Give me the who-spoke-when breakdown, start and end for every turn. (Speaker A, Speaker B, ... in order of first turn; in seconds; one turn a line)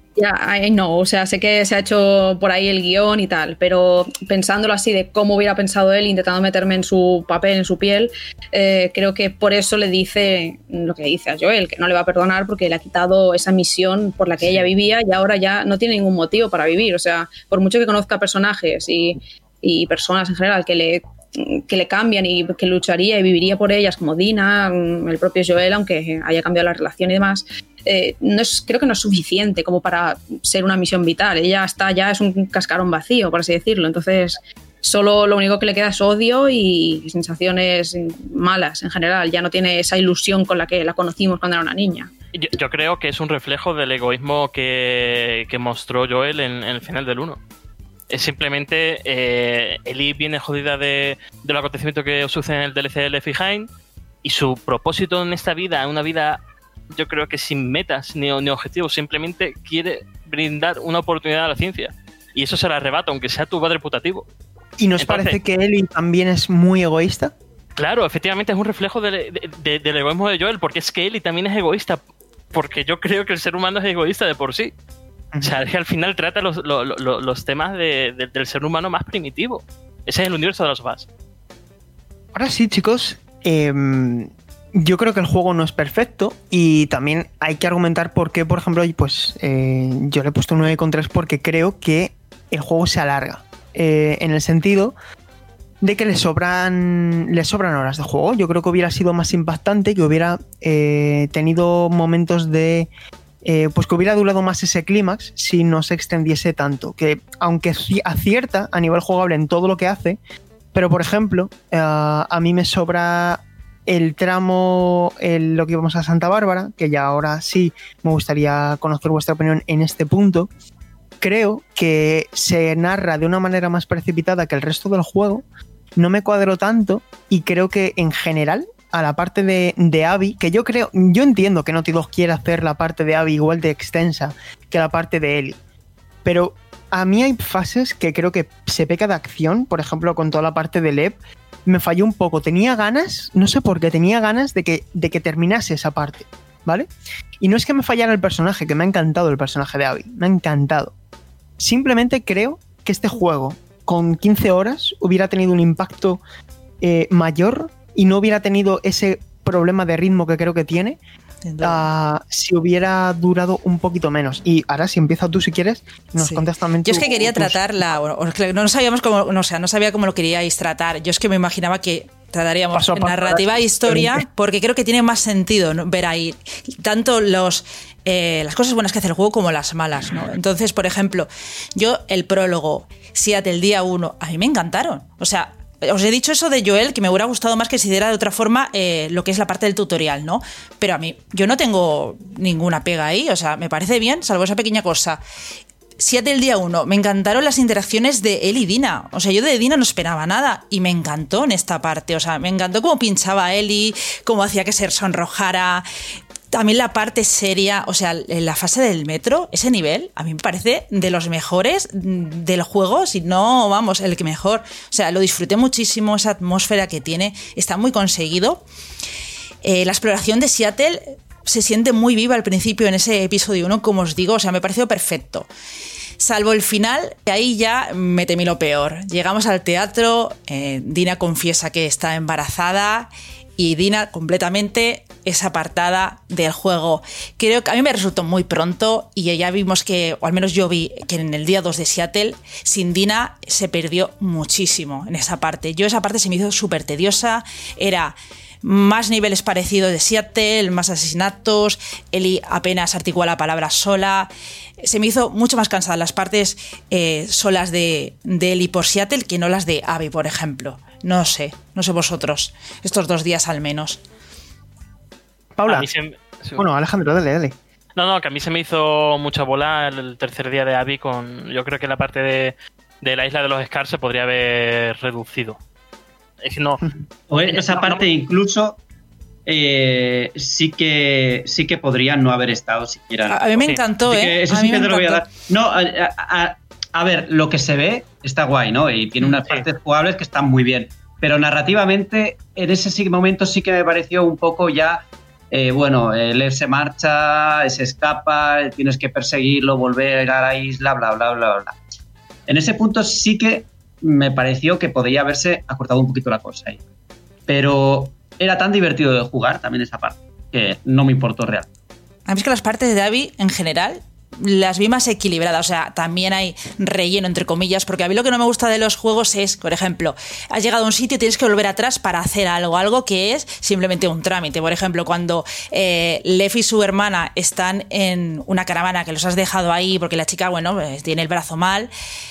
Speaker A: 0.1-42.1
Speaker B: 14.4-14.7
Speaker B: 42.3-47.4
Speaker B: 48.1-53.7
Speaker B: 54.2-56.4
Speaker B: 56.9-64.2
Speaker C: 64.8-67.3
Speaker B: 65.0-65.4
Speaker B: 67.8-72.0
Speaker B: 72.5-74.7
Speaker C: 75.3-75.6
Speaker B: 75.4-81.1
Speaker C: 82.3-94.9
Speaker C: 95.8-102.9
Speaker C: 103.4-110.2
Speaker C: 110.7-120.5
Speaker C: 121.2-125.4
Speaker C: 126.0-135.6
Speaker C: 136.2-150.9
Speaker C: 151.6-156.2
Speaker C: 156.8-161.0
Speaker D: 161.4-161.9
Speaker C: 161.6-167.7
Speaker D: 166.2-195.2
Speaker C: 172.7-174.2
Speaker D: 196.0-205.8
Speaker D: 206.5-218.6
Speaker D: 219.6-225.5
Speaker D: 226.2-254.3
Speaker D: 254.8-264.0
Speaker C: 265.6-265.9
Speaker B: 265.7-266.6
Speaker C: 266.6-267.6
Speaker B: 267.9-275.6
Speaker B: 276.4-276.8
Speaker E: 277.3-278.8
Speaker B: 277.5-278.1
Speaker E: 279.4-301.8
Speaker D: 283.3-285.2
Speaker B: 289.2-289.6
Speaker E: 302.5-306.8
Speaker E: 307.5-311.7
Speaker D: 312.3-331.9